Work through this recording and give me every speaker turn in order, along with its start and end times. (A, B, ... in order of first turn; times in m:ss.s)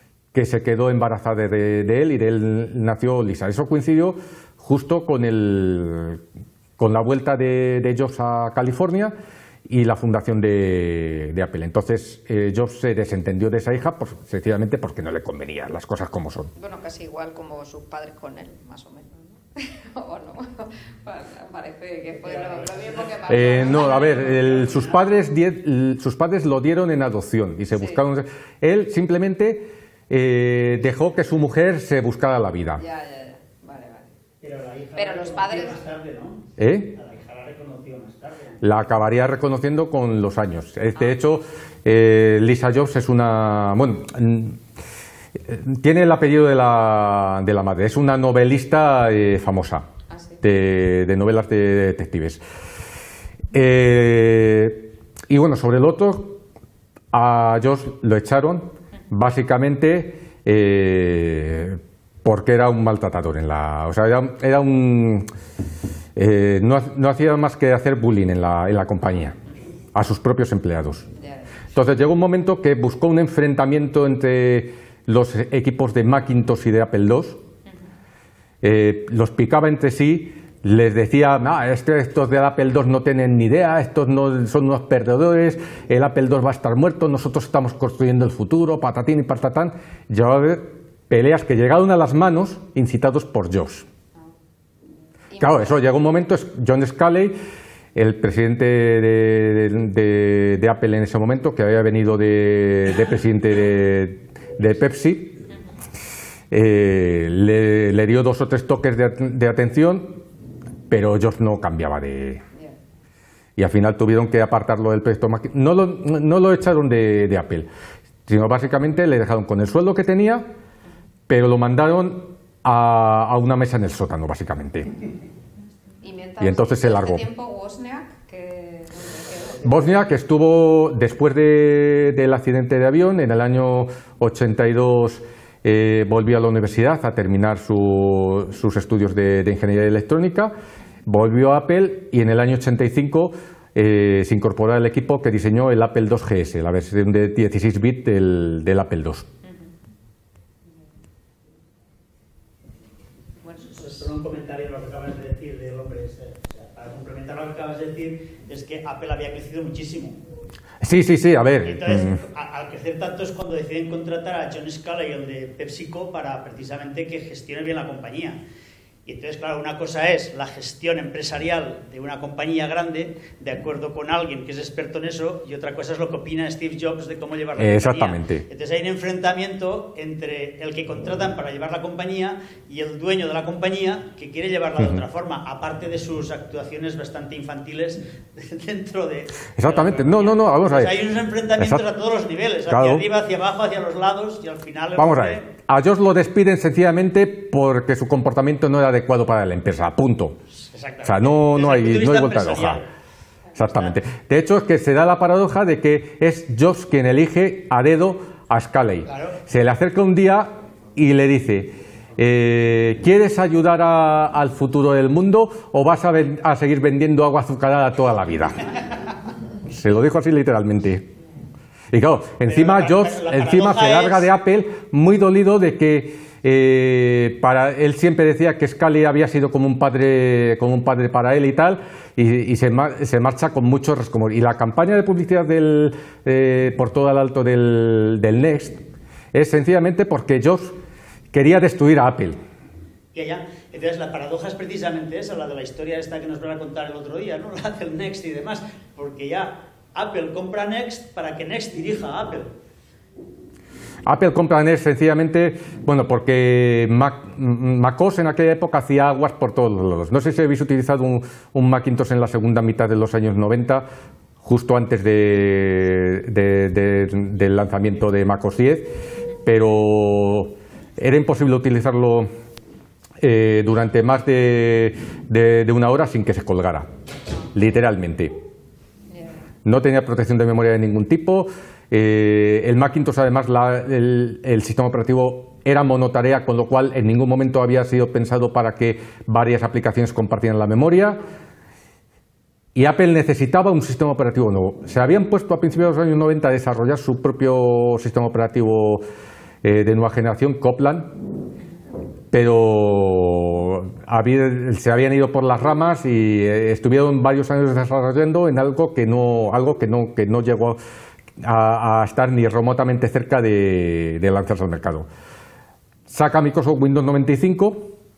0:00.3-0:06.2 A
0:06.8-0:09.2 A
0:09.7-0:16.5 A
0:16.6-0:24.8 B
0:22.2-0:25.0 C
0:23.3-0:32.8 A
0:27.7-0:28.0 B
0:32.8-0:34.1 B
0:34.4-0:38.7 C
0:35.0-0:35.8 B
0:36.6-0:37.0 A
0:38.6-0:44.6 A
0:45.4-0:49.9 A
0:50.1-0:50.4 B
0:50.4-0:52.4 A
0:53.5-0:56.4 A
0:57.1-1:05.3 A
1:06.2-1:09.4 A
1:10.0-1:11.1 A
1:11.2-1:11.6 B
1:11.7-1:17.4 A
1:18.6-1:33.9 A
1:35.3-1:35.9 B
1:35.4-1:37.4 A
1:38.0-1:45.4 A
1:46.5-1:50.2 A
1:50.9-1:52.4 A
1:53.6-1:57.7 A
1:58.3-2:00.5 A
2:01.3-2:04.9 A
2:06.0-2:10.1 B
2:06.4-2:07.2 A
2:09.6-2:20.5 A
2:21.1-2:29.3 A
2:33.4-2:34.1 B
2:33.6-2:40.2 C
2:40.8-2:42.2 A
2:41.6-2:48.4 C
2:49.0-3:15.5 C
2:57.6-2:58.4 A
3:04.8-3:05.0 A
3:09.6-3:11.0 A
3:11.6-3:11.8 A
3:12.7-3:13.1 A
3:15.0-3:20.4 A
3:20.6-3:22.9 C
3:21.0-3:22.8 A
3:23.6-3:38.7 A
3:23.6-3:24.0 C
3:29.1-3:29.4 C
3:39.7-3:41.1 A
3:41.9-3:58.8 A
3:42.5-3:44.3 C
3:59.3-4:00.8 A
4:01.3-4:02.4 A
4:03.1-4:12.5 C
4:14.0-4:23.9 A
4:24.4-4:32.3 A
4:33.2-4:36.9 A
4:37.5-4:38.4 A
4:39.6-4:51.2 A
4:52.8-4:59.0 A
4:59.6-5:01.2 A
5:02.3-5:10.8 A
5:11.4-5:15.1 A
5:16.1-5:18.0 A